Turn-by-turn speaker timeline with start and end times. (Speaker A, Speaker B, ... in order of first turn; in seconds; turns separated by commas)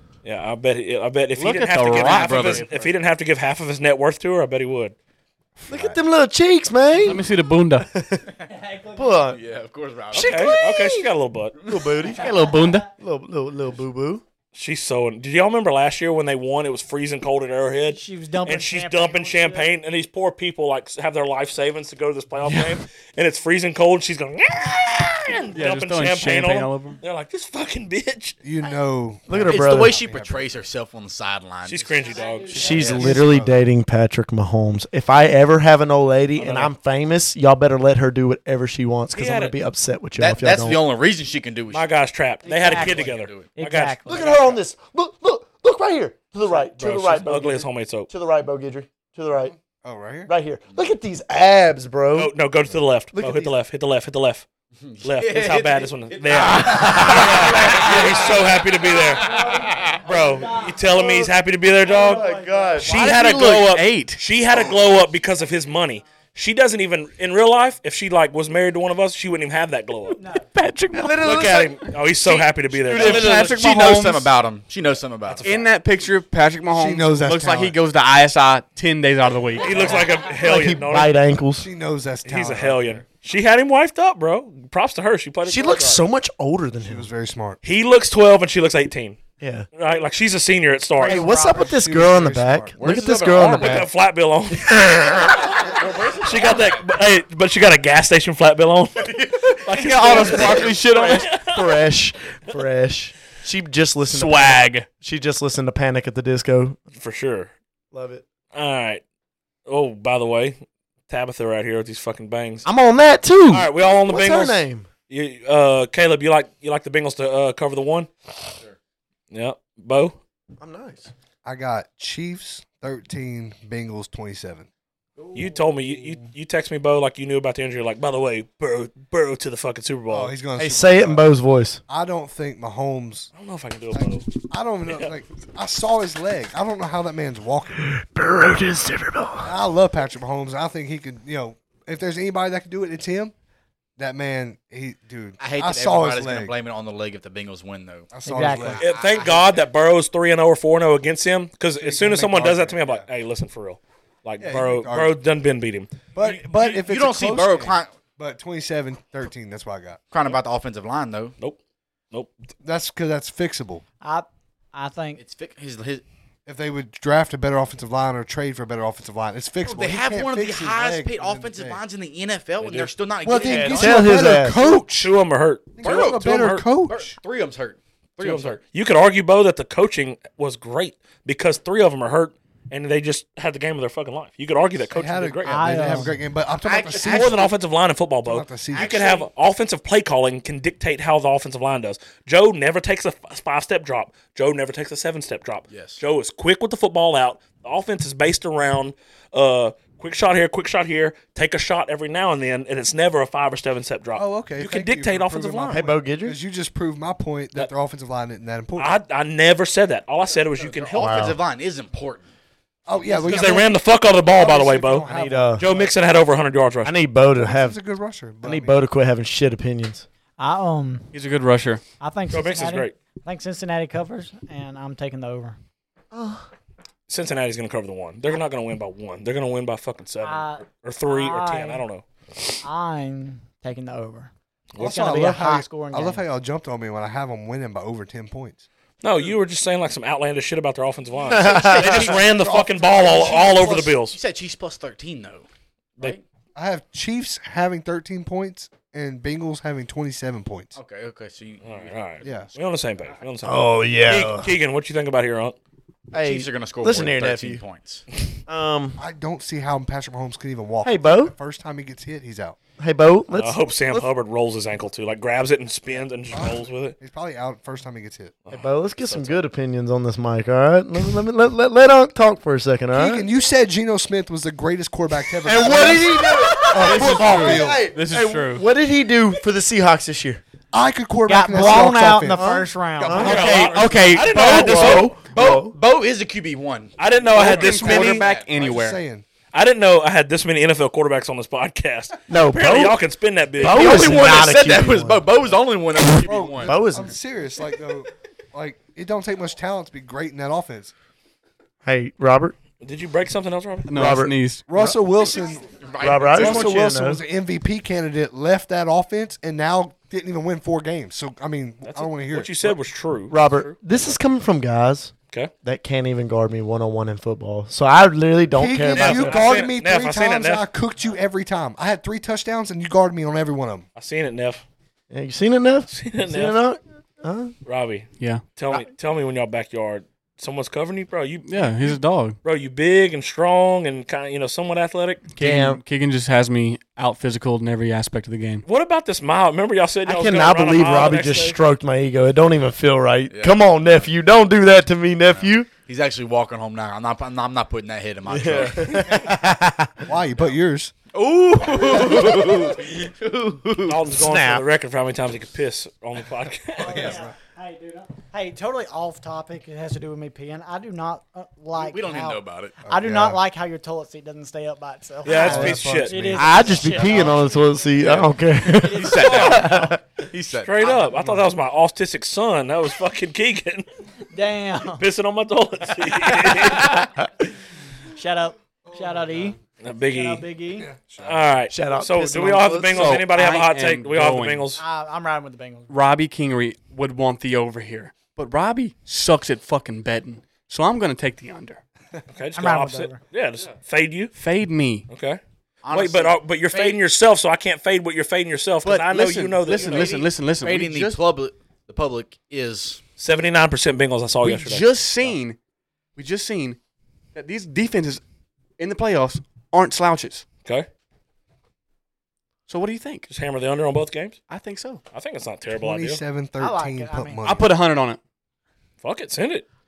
Speaker A: 0.2-4.9, Speaker B: 1.4-2.7, Speaker C: 2.0-2.9, Speaker D: 5.7-7.3, Speaker C: 5.7-6.0, Speaker B: 7.0-7.9, Speaker D: 7.9-8.3, Speaker E: 8.4-9.2, Speaker D: 8.9-9.4, Speaker C: 9.3-10.7, Speaker D: 10.1-11.1, Speaker A: 10.1-11.6, Speaker C: 11.6-11.9, Speaker D: 11.7-12.3, Speaker E: 12.0-12.9, Speaker B: 12.1-12.9, Speaker D: 12.9-14.2, Speaker A: 14.5-28.4, Speaker E: 17.9-19.7, Speaker B: 22.4-22.8, Speaker B: 25.5-27.0, Speaker F: 28.4-30.5, Speaker D: 29.3-30.0, Speaker C: 29.4-32.2, Speaker A: 31.6-32.8, Speaker E: 31.9-33.0, Speaker D: 32.5-40.8, Speaker F: 32.6-33.6, Speaker C: 32.7-33.1, Speaker A: 39.1-39.5, Speaker C: 40.2-41.9, Speaker A: 41.7-44.4, Speaker C: 42.4-43.5, Speaker E: 42.4-44.2, Speaker D: 44.1-49.5, Speaker A: 46.5-48.1, Speaker F: 49.3-50.3, Speaker D: 50.3-52.3, Speaker C: 50.7-50.9, Speaker A: 52.1-54.5, Speaker D: 53.1-53.5, Speaker C: 54.7-60.0, Speaker A: 55.0-59.3, Speaker D: 56.8-58.3, Speaker E: 58.9-63.1, Speaker A: 60.0-62.3, Speaker D: 61.9-63.1, Speaker A: 62.8-70.2, Speaker B: 62.9-64.2, Speaker E: 70.2-70.4, Speaker B: 70.3-71.9, Speaker D: 70.9-71.8, Speaker A: 71.2-73.4, Speaker C: 72.3-75.7, Speaker B: 72.8-74.3, Speaker B: 75.4-80.0, Speaker F: 76.7-77.8, Speaker A: 79.6-81.1, Speaker D: 80.3-81.7, Speaker F: 81.6-83.0, Speaker A: 82.2-86.0, Speaker D: 85.4-87.1, Speaker F: 86.8-87.6, Speaker A: 87.6-89.2, Speaker D: 89.4-89.7, Speaker A: 89.7-91.3, Speaker E: 91.0-91.8, Speaker D: 91.0-93.9, Speaker F: 91.4-92.8, Speaker C: 92.8-93.9, Speaker A: 93.3-101.8, Speaker D: 94.5-95.5, Speaker C: 95.5-96.9, Speaker C: 99.2-99.5, Speaker B: 99.7-101.4, Speaker D: 100.1-106.8, Speaker B: 104.1-104.9, Speaker A: 107.0-107.5, Speaker D: 107.9-108.2, Speaker A: 108.5-109.0, Speaker A: 109.7-110.6, Speaker A: 111.1-112.7, Speaker D: 112.6-114.9, Speaker A: 113.5-118.1, Speaker A: 119.3-120.2, Speaker D: 120.6-121.1, Speaker F: 121.4-124.7, Speaker E: 125.2-126.1, Speaker A: 125.3-130.3, Speaker F: 130.1-131.3, Speaker D: 130.6-131.8, Speaker F: 131.9-133.3, Speaker A: 133.3-134.3, Speaker F: 133.9-137.8, Speaker D: 137.8-139.5, Speaker F: 139.4-143.3, Speaker F: 144.0-146.5, Speaker C: 145.4-149.7, Speaker F: 148.1-148.9, Speaker E: 148.2-148.8, Speaker A: 148.8-155.9, Speaker F: 151.8-153.0, Speaker F: 154.4-155.2, Speaker F: 156.1-160.0, Speaker C: 156.2-157.9, Speaker C: 160.1-161.3, Speaker F: 162.6-163.8, Speaker E: 164.0-165.2, Speaker C: 165.2-166.0, Speaker F: 166.4-171.8, Speaker C: 169.6-174.1, Speaker A: 172.6-172.9, Speaker F: 173.2-175.1, Speaker D: 173.4-174.7, Speaker A: 174.9-176.7, Speaker F: 175.8-177.2, Speaker C: 175.8-176.3, Speaker C: 176.8-178.6, Speaker A: 178.2-186.0, Speaker F: 184.9-187.5, Speaker E: 185.4-186.2, Speaker C: 186.6-187.5, Speaker A: 187.0-205.8, Speaker F: 188.2-188.9, Speaker C: 188.7-189.3, Speaker C: 195.7-196.0, Speaker F: 204.1-208.9, Speaker D: 205.7-206.4, Speaker A: 208.8-211.1, Speaker C: 210.4-212.3, Speaker D: 210.9-211.4, Speaker F: 212.8-215.9, Speaker A: 213.2-216.9, Speaker D: 215.1-215.6, Speaker D: 216.8-217.8, Speaker F: 217.3-218.8, Speaker D: 218.4-220.1, Speaker E: 220.4-221.1, Speaker B: 221.1-221.8, Speaker E: 222.0-225.6, Speaker A: 222.3-222.9, Speaker D: 226.1-226.5, Speaker A: 227.1-232.6, Speaker E: 230.2-231.8, Speaker E: 232.6-236.2, Speaker F: 234.8-238.7, Speaker A: 239.0-244.2, Speaker D: 241.3-242.1, Speaker C: 241.3-246.2, Speaker F: 242.2-243.7, Speaker F: 246.5-250.8, Speaker C: 250.7-251.9, Speaker A: 251.6-255.6, Speaker F: 252.2-252.5, Speaker D: 253.4-254.5, Speaker D: 256.1-257.6, Speaker C: 256.1-258.0, Speaker D: 258.5-259.0, Speaker F: 259.0-262.6, Speaker D: 260.8-261.3, Speaker D: 262.8-264.1, Speaker A: 263.3-266.9, Speaker F: 266.3-268.3, Speaker A: 268.4-269.4, Speaker D: 268.5-273.3, Speaker F: 272.9-277.9, Speaker D: 275.4-280.4, Speaker B: 276.8-278.6, Speaker F: 280.7-283.1, Speaker E: 281.3-283.4, Speaker D: 281.5-283.6, Speaker A: 283.1-285.1, Speaker B: 283.2-285.1, Speaker D: 284.2-285.7, Speaker C: 284.8-288.7, Speaker A: 287.0-288.2, Speaker B: 287.4-289.0, Speaker F: 287.4-289.2, Speaker A: 289.5-294.3, Speaker D: 292.3-293.0, Speaker D: 293.6-295.3, Speaker C: 293.6-296.8, Speaker D: 296.1-297.1, Speaker F: 296.2-300.9, Speaker D: 301.8-302.5, Speaker A: 302.8-304.2, Speaker B: 303.9-304.7, Speaker D: 303.9-305.0, Speaker F: 304.7-312.8, Speaker C: 305.7-306.8, Speaker D: 306.0-307.2, Speaker A: 311.8-314.2, Speaker D: 313.3-315.1, Speaker D: 315.6-319.5, Speaker F: 318.5-323.9, Speaker A: 318.9-320.7, Speaker A: 323.9-324.6, Speaker D: 325.1-327.5, Speaker A: 325.9-326.6, Speaker A: 327.6-335.3, Speaker B: 328.2-328.5, Speaker B: 331.4-332.4, Speaker B: 335.3-338.6, Speaker D: 335.4-335.8, Speaker A: 338.6-341.6, Speaker D: 340.0-345.7, Speaker C: 343.3-344.1, Speaker C: 345.2-349.1, Speaker D: 348.3-350.1, Speaker F: 350.1-350.9, Speaker C: 351.1-354.0, Speaker D: 351.9-352.6, Speaker A: 353.9-357.2, Speaker D: 353.9-354.6, Speaker E: 356.8-367.3, Speaker F: 356.8-357.3, Speaker C: 361.7-362.8, Speaker F: 362.8-363.4, Speaker A: 365.2-366.4, Speaker F: 365.3-367.4, Speaker D: 365.4-370.1, Speaker C: 367.9-371.3, Speaker E: 368.8-369.9, Speaker A: 369.3-369.5, Speaker A: 370.5-373.9, Speaker E: 374.3-375.0, Speaker A: 375.0-377.1, Speaker E: 378.1-379.6, Speaker F: 378.8-379.3, Speaker A: 379.8-380.4, Speaker E: 380.1-380.9, Speaker F: 380.8-381.5, Speaker A: 381.2-384.8, Speaker D: 381.7-383.2, Speaker B: 382.9-384.7, Speaker E: 384.8-386.0, Speaker B: 385.9-391.8, Speaker A: 392.3-394.3, Speaker E: 392.6-393.2, Speaker B: 394.3-395.1, Speaker A: 395.1-400.2, Speaker C: 395.8-397.0, Speaker B: 398.8-401.2, Speaker C: 399.7-403.0, Speaker A: 403.2-404.9, Speaker B: 404.4-405.6, Speaker B: 406.1-406.8, Speaker B: 407.3-408.2, Speaker B: 408.8-410.4, Speaker B: 412.7-413.3, Speaker A: 413.3-414.4, Speaker B: 414.5-415.0, Speaker A: 415.1-416.2, Speaker F: 415.8-417.7, Speaker E: 416.6-417.4, Speaker B: 417.4-418.2, Speaker A: 419.0-419.6